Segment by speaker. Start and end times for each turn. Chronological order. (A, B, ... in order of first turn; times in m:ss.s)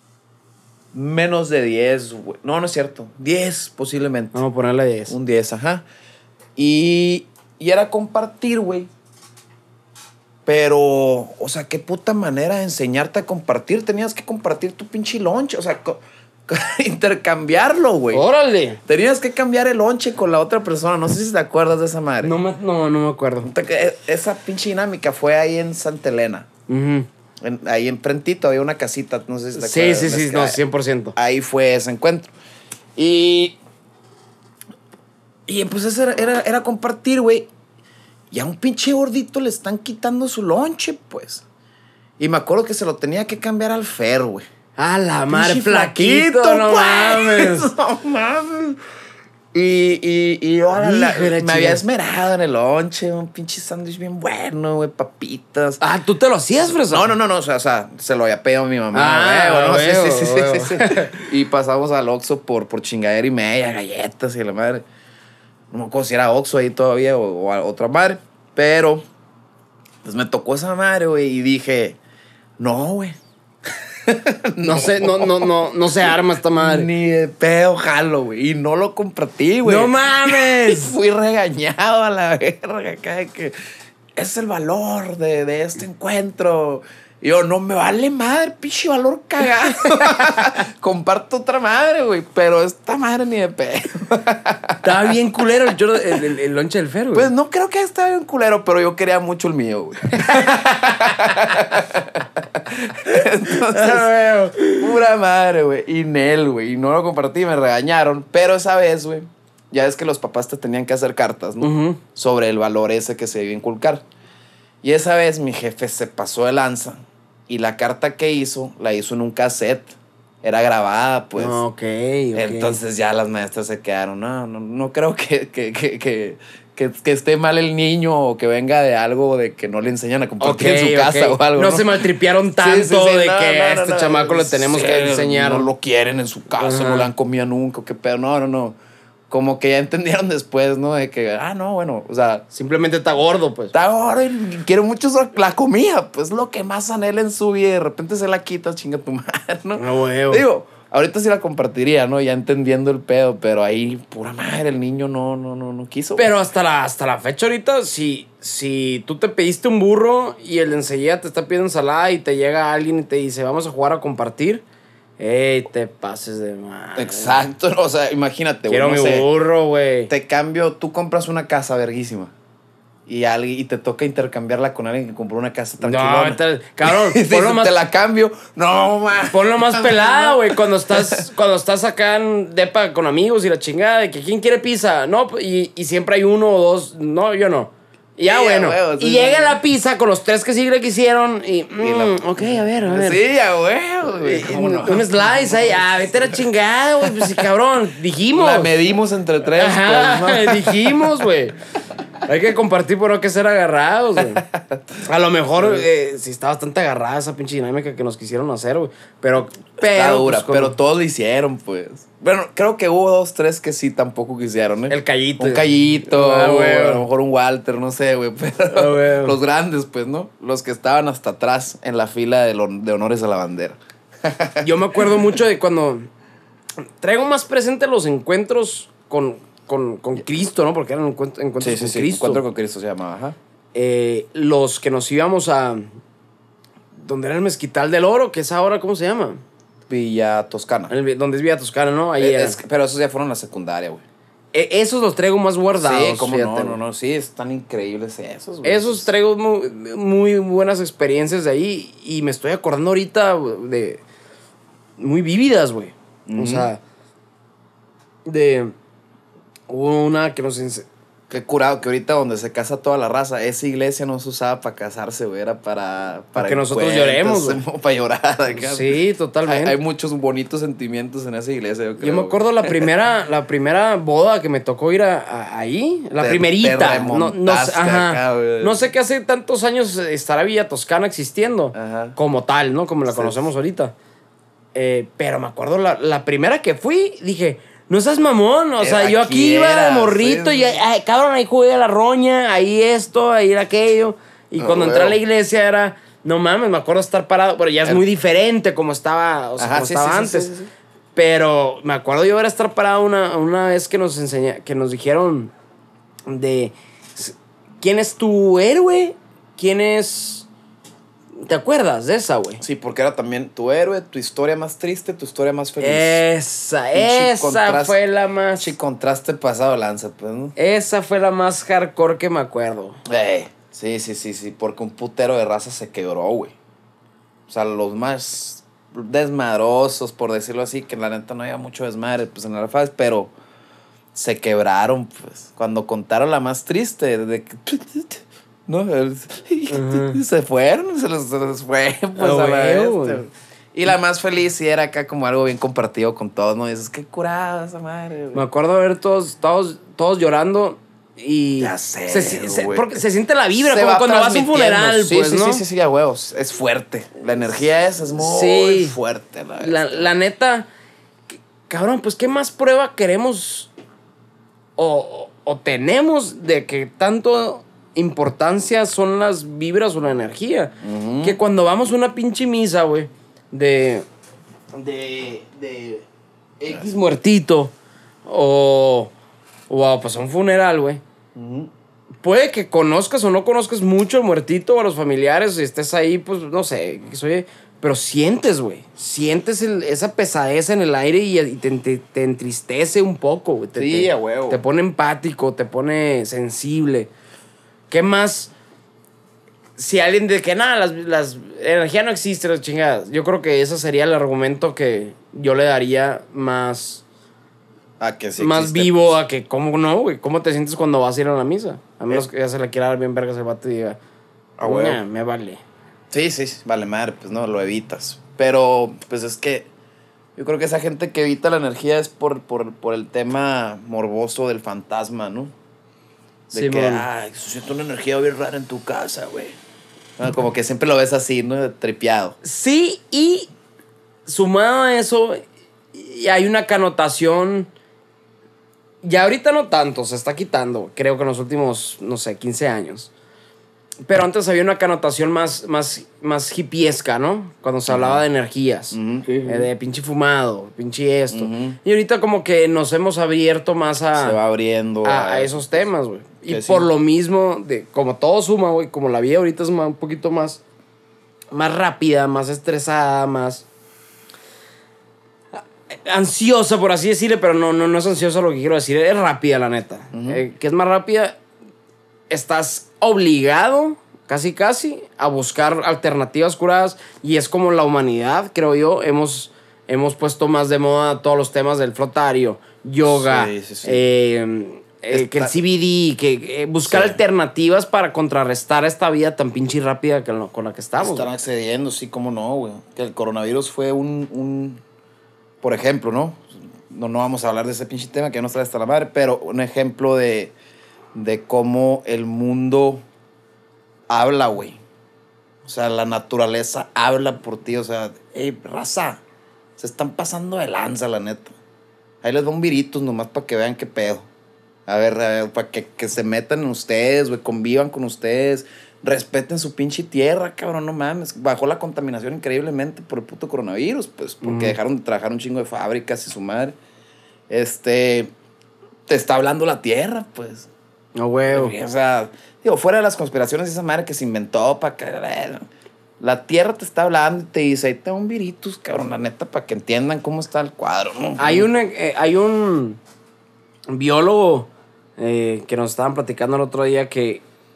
0:00.9-0:04.4 A
0:04.3-0:05.2 B
0:05.1-0:05.8 A
0:06.6-0:08.9 A
0:10.5-0:18.2 A
0:18.1-0:18.8 B
0:18.9-0:22.4 A
0:22.2-0:23.5 B
0:23.4-0:26.5 A
0:26.7-0:27.1 B
0:27.4-0:30.6 A
0:29.6-0:31.2 B
0:31.2-0:32.3 A
0:33.0-0:33.6 A
0:35.5-0:37.5 A
0:38.3-0:41.4 A
0:42.2-0:44.4 A
0:44.8-0:47.7 B
0:45.3-0:48.8 A
0:49.5-0:55.8 A
0:50.7-0:51.8 B
0:55.8-0:57.1 B
0:56.6-1:04.8 A
0:58.9-1:01.2 B
1:05.7-1:09.0 A
1:10.0-1:12.0 A
1:12.6-1:13.2 A
1:14.0-1:23.5 A
1:14.6-1:16.9 B
1:19.6-1:20.9 B
1:24.2-1:35.2 A
1:34.8-1:37.3 B
1:37.1-1:44.1 A
1:40.1-1:41.6 B
1:43.5-1:44.9 B
1:44.7-1:54.0 A
1:51.6-1:52.0 B
1:54.8-2:01.6 A
2:01.4-2:02.8 B
2:02.3-2:12.1 A
2:10.4-2:15.7 B
2:12.6-2:18.8 A
2:16.6-2:17.1 B
2:19.3-2:22.4 A
2:22.5-2:23.7 B
2:23.7-2:36.3 A
2:29.8-2:30.4 B
2:36.2-2:44.6 B
2:45.2-2:47.5 B
2:47.0-2:49.3 A
2:48.7-2:50.1 B
2:50.1-2:52.3 A
2:53.1-3:01.2 A
2:55.8-2:57.7 B
2:59.3-3:13.2 B
3:08.2-3:09.6 A
3:11.8-3:16.5 A
3:14.1-3:18.7 B
3:17.0-3:17.5 A
3:18.3-3:21.2 A
3:19.5-3:21.6 B
3:22.3-3:24.4 B
3:24.2-3:24.8 A
3:25.0-3:30.7 B
3:25.6-3:25.9 A
3:29.8-3:45.3 A
3:34.9-3:37.0 B
3:38.7-3:39.4 B
3:44.6-3:46.1 B
3:47.0-3:52.4 B
3:51.6-3:53.4 A
3:53.7-3:55.9 B
3:57.0-3:59.4 B
3:59.9-4:00.9 A
4:00.9-4:02.6 B
4:02.2-4:04.0 A
4:04.5-4:06.8 B
4:05.8-4:09.1 A
4:08.6-4:14.0 B
4:15.0-4:16.8 B
4:16.3-4:16.7 A
4:18.3-4:18.7 B
4:19.7-4:20.9 B
4:21.3-4:32.9 A
4:26.4-4:27.6 B
4:28.5-4:29.8 B
4:32.0-4:43.9 B
4:36.2-4:38.9 A
4:41.8-4:42.2 A
4:43.1-4:43.4 A
4:44.8-5:00.5 B
4:48.8-4:50.8 A
4:54.6-4:55.2 A
4:59.6-5:00.7 A
5:01.2-5:05.5 B
5:06.3-5:10.5 B
5:11.4-5:12.6 B
5:12.6-5:16.2 A
5:15.8-5:18.7 B
5:16.9-5:18.0 A
5:18.6-5:20.6 A
5:20.6-5:23.0 B
5:23.1-5:26.6 A
5:27.5-5:33.3 A
5:34.1-5:48.4 A
5:39.7-5:40.2 B
5:42.2-5:43.2 B
5:48.3-5:55.6 B
5:51.6-5:53.0 A
5:53.6-6:00.1 A
5:58.2-5:59.0 B
5:59.6-6:00.7 B
6:01.7-6:03.7 B
6:04.8-6:14.0 B
6:10.8-6:11.4 A
6:14.8-6:16.0 A
6:14.9-6:16.0 B
6:16.6-6:16.9 A
6:16.6-6:17.7 B
6:18.2-6:19.1 B
6:19.7-6:21.0 B
6:21.4-6:21.7 A
6:22.2-6:37.1 B
6:33.8-6:34.6 A
6:37.9-6:38.5 B
6:39.8-6:47.0 B
6:48.0-6:49.1 A
6:48.4-6:54.0 B
6:54.6-6:55.0 A
6:54.6-6:55.6 B
6:56.1-6:59.7 A
7:00.4-7:05.5 A
7:06.5-7:07.0 B
7:06.5-7:09.6 A
7:10.2-7:12.4 A
7:12.4-7:13.5 B
7:14.3-7:17.7 B
7:19.0-7:23.1 B
7:24.1-7:34.4 B
7:27.9-7:28.2 A
7:28.9-7:29.7 A
7:31.3-7:31.8 A
7:34.2-7:35.8 A
7:35.0-7:40.6 B
7:36.5-7:36.9 A
7:41.5-7:43.6 B
7:45.6-7:51.4 B
7:50.1-7:50.4 A
7:52.3-8:11.3 B
8:03.1-8:04.0 A
8:05.1-8:05.6 A
8:06.9-8:07.2 A
8:11.0-8:14.8 A
8:15.6-8:20.5 A
8:21.1-8:23.0 A
8:24.1-8:24.8 A
8:25.6-8:29.2 A
8:29.8-8:31.6 A
8:32.2-8:34.3 A
8:34.9-8:46.7 A
8:44.4-8:44.8 B
8:47.5-8:48.3 A
8:49.1-8:50.7 A
8:51.2-8:51.8 B
8:51.5-8:55.7 A
8:56.2-9:01.7 A
9:01.4-9:03.0 B
9:03.9-9:07.4 B